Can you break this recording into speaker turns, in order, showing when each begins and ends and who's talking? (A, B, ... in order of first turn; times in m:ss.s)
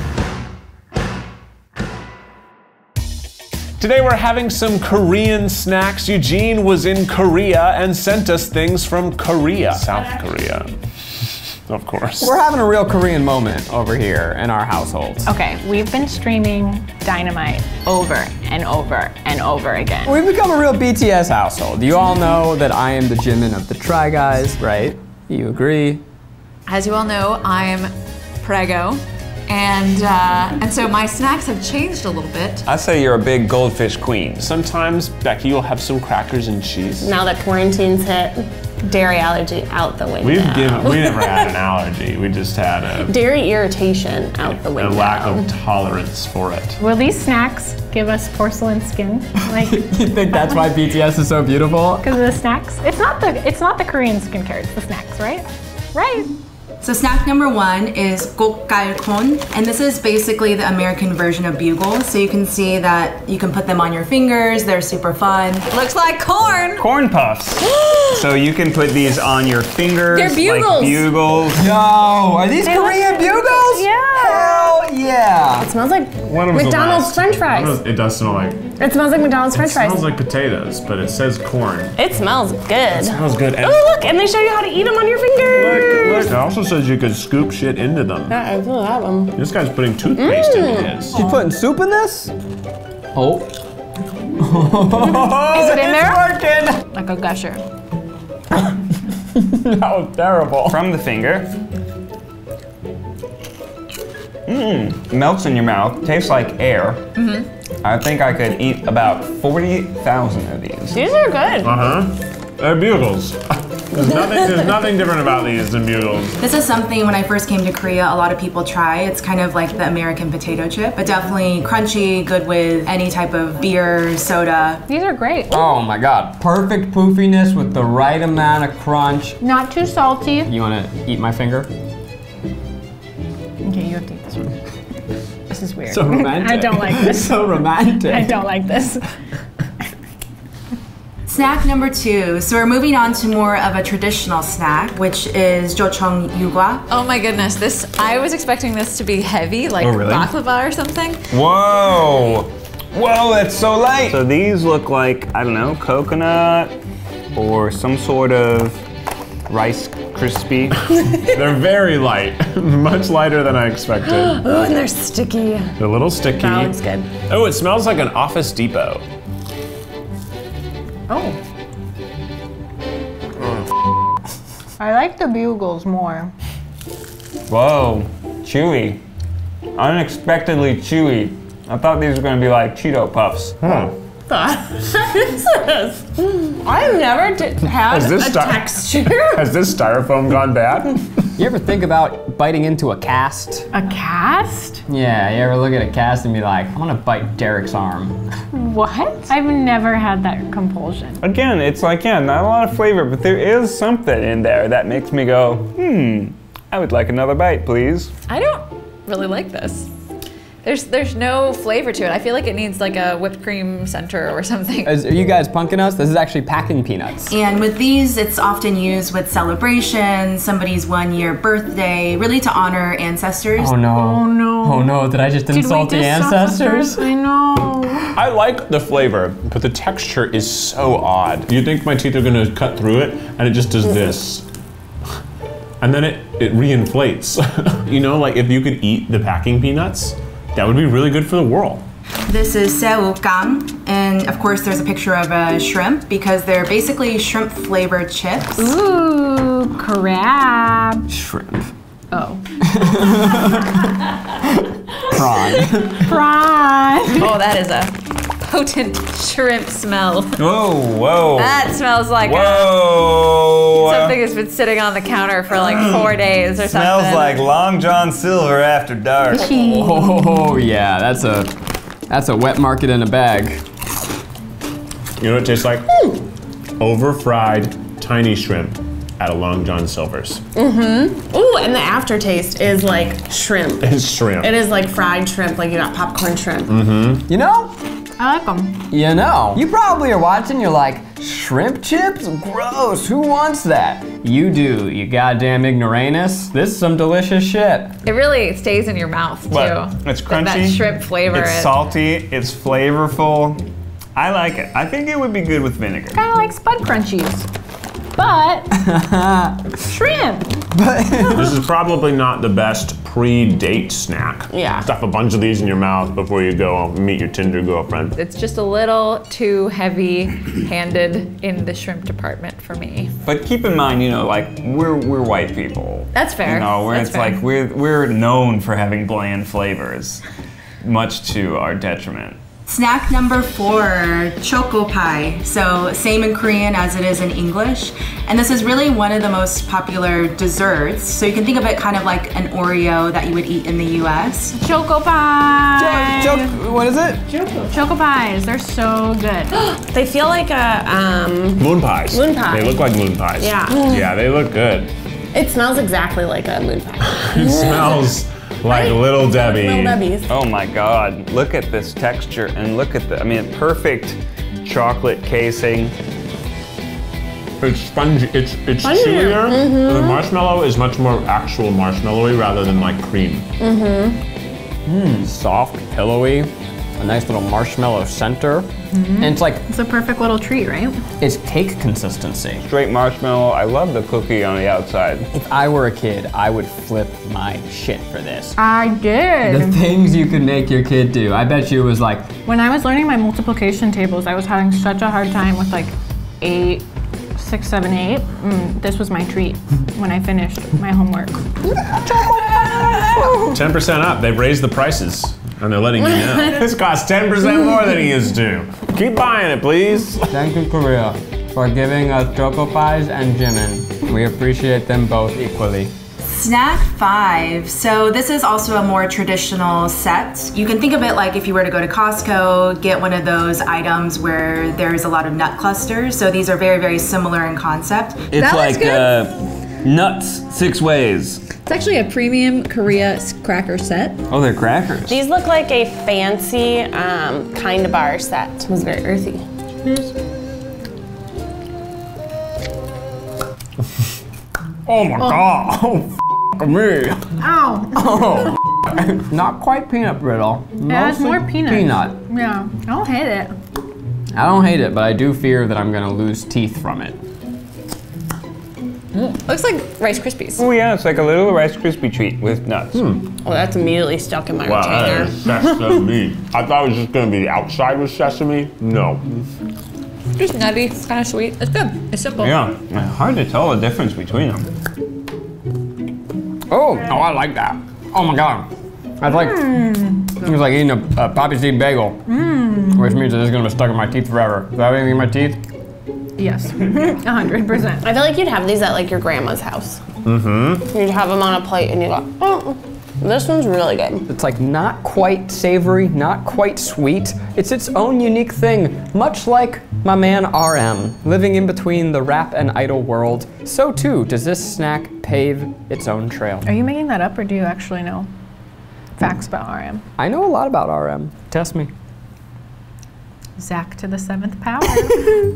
0:03.8-0:10.8 A
0:11.7-0:12.4 A
0:12.2-0:15.3 B
0:15.2-0:20.2 C
0:20.0-0:26.0 B
0:26.7-0:32.6 D
0:32.6-0:34.5 E
0:34.4-0:37.2 A
0:37.0-0:41.5 F
0:40.2-0:43.2 A
0:43.0-0:45.5 F
0:44.4-0:46.8 A
0:46.8-0:50.5 C
0:49.6-0:52.1 B
0:52.0-0:56.3 C
0:56.8-1:05.7 G
1:05.7-1:06.9 D
1:06.8-1:11.7 E
1:07.6-1:08.3 F
1:10.1-1:11.1 D
1:11.5-1:15.7 B
1:12.6-1:14.8 F
1:15.6-1:17.8 F
1:16.2-1:18.7 A
1:18.8-1:20.1 F
1:19.5-1:21.9 A
1:22.0-1:26.3 F
1:22.9-1:24.1 A
1:25.5-1:28.4 A
1:28.3-1:29.4 F
1:29.3-1:31.2 A
1:30.1-1:31.0 F
1:31.1-1:32.3 B
1:33.1-1:33.5 B
1:34.4-1:36.8 B
1:35.5-1:36.3 C
1:36.9-1:37.6 C
1:39.3-1:40.8 B
1:40.7-1:41.5 E
1:44.5-1:47.0 E
1:47.2-1:47.5 G
1:47.8-1:51.0 E
1:50.9-1:51.8 F
1:51.6-1:56.4 A
1:56.4-2:04.8 G
2:04.9-2:05.6 C
2:05.5-2:09.4 B
2:09.4-2:10.5 C
2:10.4-2:11.7 B
2:13.6-2:14.5 C
2:15.5-2:19.1 C
2:15.9-2:18.4 B
2:21.3-2:26.8 G
2:26.9-2:31.2 D
2:29.8-2:30.3 E
2:31.3-2:36.7 E
2:37.3-2:38.8 E
2:39.5-2:40.7 E
2:41.3-2:44.4 A
2:44.0-2:45.8 F
2:45.8-2:49.0 A
2:46.3-2:47.1 F
2:51.1-2:51.4 C
2:54.8-2:56.3 C
2:57.5-2:59.0 E
2:59.8-3:03.5 E
3:03.6-3:03.9 A
3:04.3-3:09.5 F
3:07.8-3:11.0 A
3:11.4-3:13.7 B
3:13.7-3:14.8 C
3:14.9-3:18.2 B
3:18.5-3:21.2 C
3:21.2-3:28.1 E
3:28.3-3:29.9 D
3:30.6-3:34.9 D
3:34.8-3:37.4 B
3:37.3-3:43.7 G
3:43.5-3:47.0 B
3:43.9-3:48.1 C
3:48.1-3:54.4 A
3:55.8-4:01.8 A
4:02.3-4:08.7 G
4:08.6-4:11.1 C
4:11.1-4:11.7 B
4:12.1-4:12.4 C
4:12.7-4:13.8 B
4:15.0-4:16.0 B
4:15.9-4:17.3 C
4:17.1-4:20.4 D
4:20.4-4:24.2 E
4:21.3-4:22.8 D
4:23.8-4:27.5 D
4:25.6-4:29.5 E
4:29.3-4:30.4 C
4:29.4-4:31.5 B
4:32.1-4:33.6 B
4:35.2-4:35.9 A
4:35.9-4:36.2 F
4:36.8-4:40.4 A
4:40.5-4:46.8 F
4:43.8-4:44.6 A
4:46.7-4:47.2 A
4:47.3-4:47.8 B
4:48.2-4:48.9 C
4:48.9-4:58.0 B
4:58.0-5:01.8 D
4:59.5-5:03.6 E
5:04.1-5:06.2 E
5:06.1-5:07.5 C
5:08.1-5:08.8 C
5:08.8-5:09.6 B
5:09.8-5:10.6 C
5:10.7-5:11.6 B
5:11.3-5:18.2 A
5:14.5-5:14.9 F
5:18.2-5:23.1 D
5:23.2-5:30.2 E
5:26.1-5:27.4 D
5:30.8-5:32.4 E
5:32.7-5:44.6 G
5:44.6-5:46.5 C
5:45.8-5:47.2 B
5:47.7-5:49.5 C
5:49.6-5:54.2 F
5:51.6-5:54.9 A
5:55.3-5:58.1 F
5:57.2-6:00.0 A
5:58.7-6:00.3 F
6:00.3-6:05.9 E
6:07.6-6:13.5 A
6:08.8-6:10.3 F
6:13.6-6:14.2 F
6:14.8-6:18.7 B
6:18.9-6:21.0 C
6:19.2-6:19.6 B
6:21.2-6:22.6 B
6:22.6-6:25.3 E
6:25.3-6:28.5 B
6:28.6-6:29.8 C
6:29.4-6:32.3 B
6:32.4-6:41.4 C
6:43.4-6:50.3 A
6:46.0-6:46.7 F
6:50.3-6:55.9 B
6:56.2-7:08.3 G
7:08.3-7:11.5 E
7:08.3-7:09.2 D
7:11.6-7:14.2 D
7:14.3-7:15.2 E
7:15.1-7:19.4 F
7:24.8-7:27.4 B
7:25.2-7:25.4 C
7:27.4-7:28.0 C
7:27.9-7:32.2 B
7:30.9-7:33.5 C
7:34.3-7:37.2 B
7:39.1-7:40.6 D
7:40.6-7:43.0 E
7:42.9-7:43.3 A
7:43.4-7:46.0 F
7:44.6-7:49.4 A
7:50.4-7:52.6 D
7:52.4-7:54.7 E
7:56.7-7:58.7 B
7:59.2-7:59.8 B
7:59.2-8:00.4 C
8:00.4-8:02.2 B
8:02.3-8:03.1 C
8:02.9-8:05.6 B
8:06.4-8:08.1 C
8:08.0-8:10.0 F
8:10.2-8:10.8 A
8:10.8-8:14.2 F
8:14.3-8:26.7 B
8:26.6-8:28.3 C
8:29.2-8:30.0 C
8:30.2-8:31.9 B
8:33.6-8:35.3 C